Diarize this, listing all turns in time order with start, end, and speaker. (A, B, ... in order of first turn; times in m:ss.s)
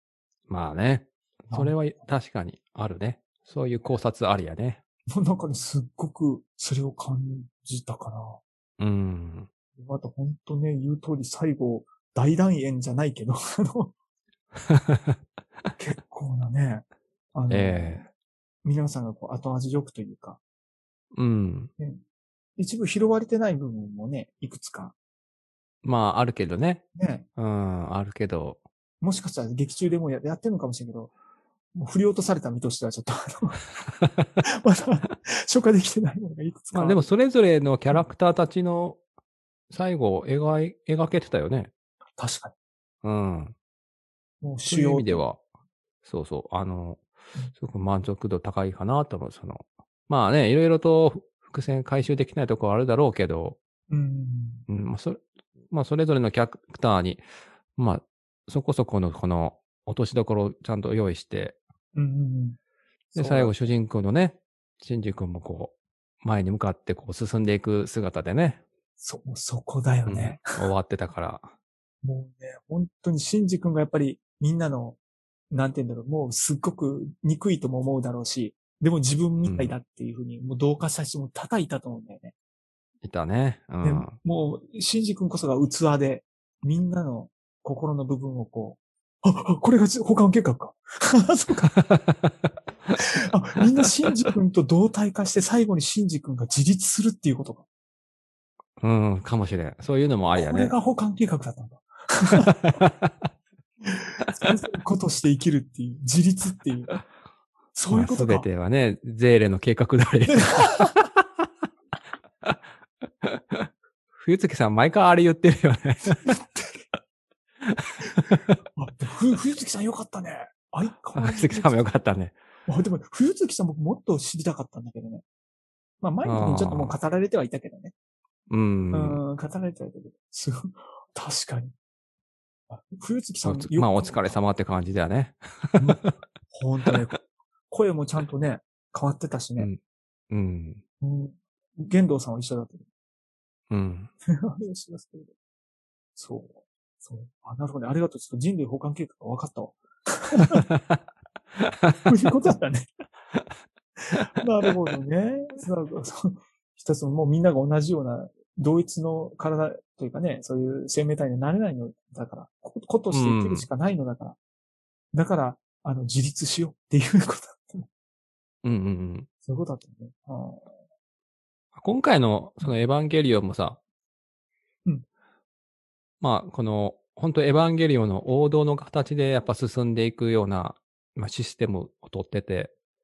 0:00.5-0:04.8 A
0:01.5-0:01.8 B
0:05.1-0:08.4 B
0:08.8-0:09.5 A
0:09.8-0:13.9 B
0:14.7-0:15.2 A
0:15.8-0:18.0 B
0:17.5-0:18.1 A
0:18.6-0:20.4 B
0:21.1-0:21.7 A
0:22.6-0:24.9 B
0:25.8-0:28.6 A
0:27.0-0:27.3 B
0:29.0-0:31.1 B
0:31.7-0:33.6 B
0:34.5-0:37.1 B
0:36.7-0:39.0 A
0:39.7-0:41.7 A
0:42.2-0:42.5 B
0:43.0-0:43.5 A
0:44.4-0:45.2 B
0:44.7-0:45.4 A
0:46.0-0:47.0 A
0:47.6-0:53.6 A
0:53.9-0:54.6 B
0:54.7-0:57.2 A
0:57.8-1:01.6 A
1:01.9-1:02.6 B
1:03.1-1:08.6 A
1:03.2-1:03.5 B
1:09.0-1:10.6 B
1:10.1-1:11.5 A
1:12.0-1:15.0 B
1:15.5-1:22.3 B
1:19.4-1:19.7 A
1:23.0-1:24.1 A
1:23.8-1:31.8 B
1:31.9-1:32.3 A
1:33.0-1:37.6 B
1:38.8-1:40.7 A
1:40.4-1:42.6 B
1:42.6-1:43.1 A
1:43.8-1:46.9 B
1:47.7-1:48.5 B
1:47.9-1:51.4 A
1:50.3-1:50.9 B
1:53.2-1:56.4 A
1:56.2-1:56.8 B
1:57.6-1:58.6 A
1:58.8-2:01.8 B
2:01.1-2:02.3 A
2:02.7-2:05.2 B
2:06.0-2:07.9 B
2:06.2-2:07.0 A
2:08.5-2:09.2 A
2:08.9-2:11.7 B
2:12.7-2:14.4 B
2:13.4-2:16.0 A
2:15.8-2:19.7 B
2:20.3-2:20.8 A
2:21.0-2:22.8 B
2:23.7-2:24.1 A
2:24.3-2:25.3 B
2:26.2-2:30.7 B
2:31.6-2:32.1 A
2:32.0-2:32.9 B
2:34.1-2:44.4 B
2:43.1-2:43.7 A
2:45.1-2:47.9 B
2:48.6-2:49.3 A
2:49.4-2:50.6 B
2:51.8-2:53.8 A
2:56.2-3:02.7 A